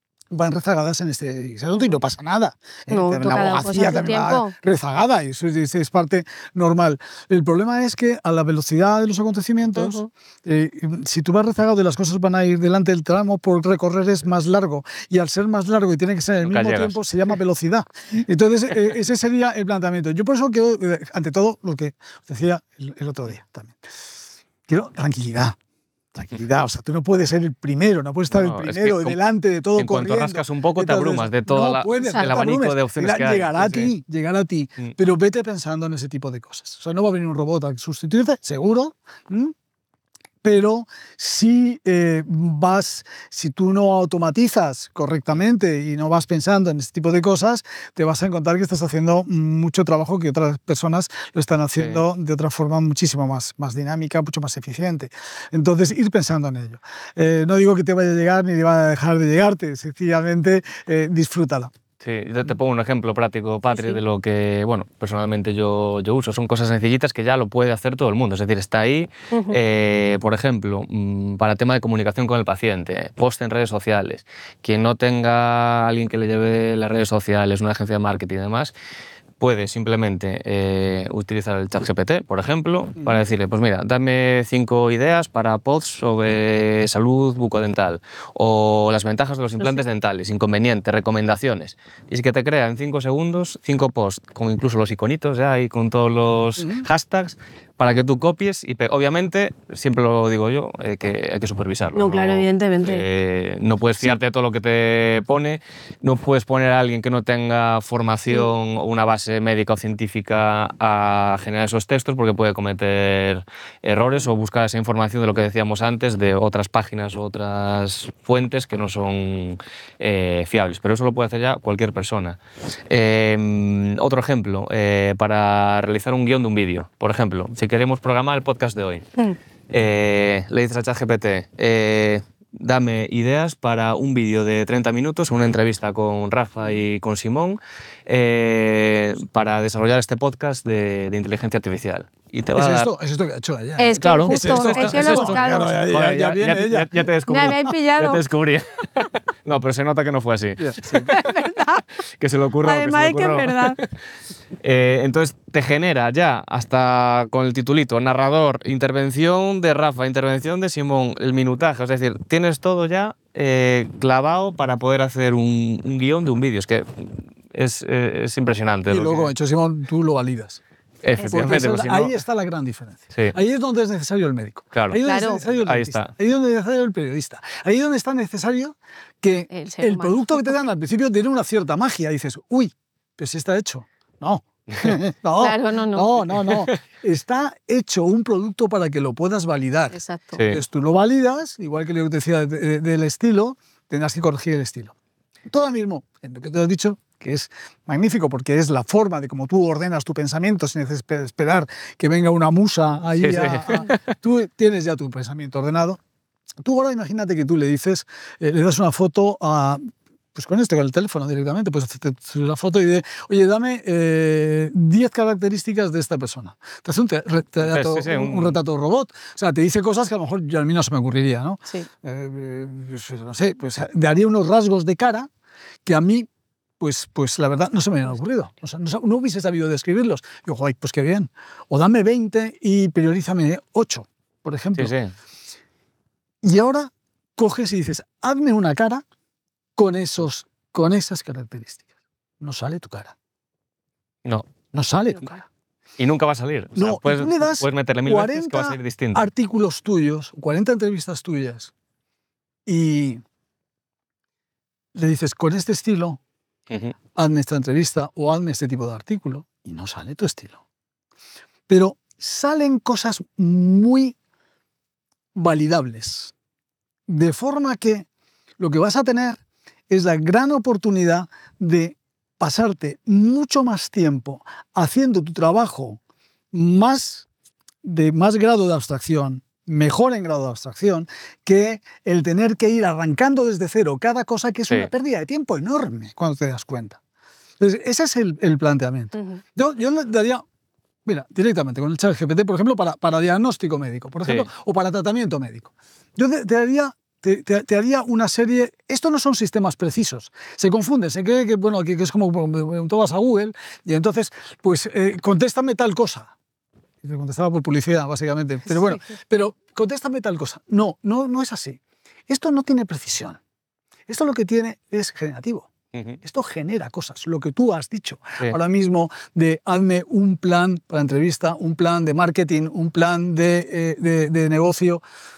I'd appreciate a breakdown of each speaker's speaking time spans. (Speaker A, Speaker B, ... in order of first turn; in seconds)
Speaker A: 0.3-23.8, 24.7-25.6, 26.1-39.5, 40.4-61.7, 96.6-96.8, 142.6-147.6, 150.6-151.1, 168.9-170.6, 171.2-194.9, 195.5-206.0, 206.6-209.8, 210.3-225.3, 225.8-226.3, 226.8-234.9, 236.4-239.0, 239.8-241.8, 242.4-243.1, 244.7-245.4, 246.8-251.7, 252.7-253.2, 254.9-256.2, 257.1-260.6, 261.7-264.1, 265.4-266.3, 267.1-268.1, 268.6-276.0, 276.5-277.3, 277.8-287.0, 287.6-290.4, 291.1-306.3, 307.0-313.4, 314.1-315.7, 316.2-325.0
Speaker B: 2.9-4.5, 9.8-10.1, 32.0-32.4, 63.7-64.0, 69.3-69.6, 101.9-103.0, 143.8-145.7, 147.3-148.2, 151.1-151.8, 152.6-153.8, 171.2-171.5, 175.0-175.4, 179.5-180.5, 185.4-186.1, 189.9-190.4, 289.1-289.4
Speaker C: 16.5-17.0, 28.3-29.2, 29.8-33.9, 51.8-52.0, 62.0-78.7, 79.4-129.1, 129.7-142.9, 144.0-151.1, 152.2-153.8, 154.6-169.3, 171.0-172.1, 174.7-175.0, 175.6-176.1, 190.3-190.6, 203.2-204.0, 217.6-218.6, 234.8-235.1, 246.0-249.2, 315.9-316.2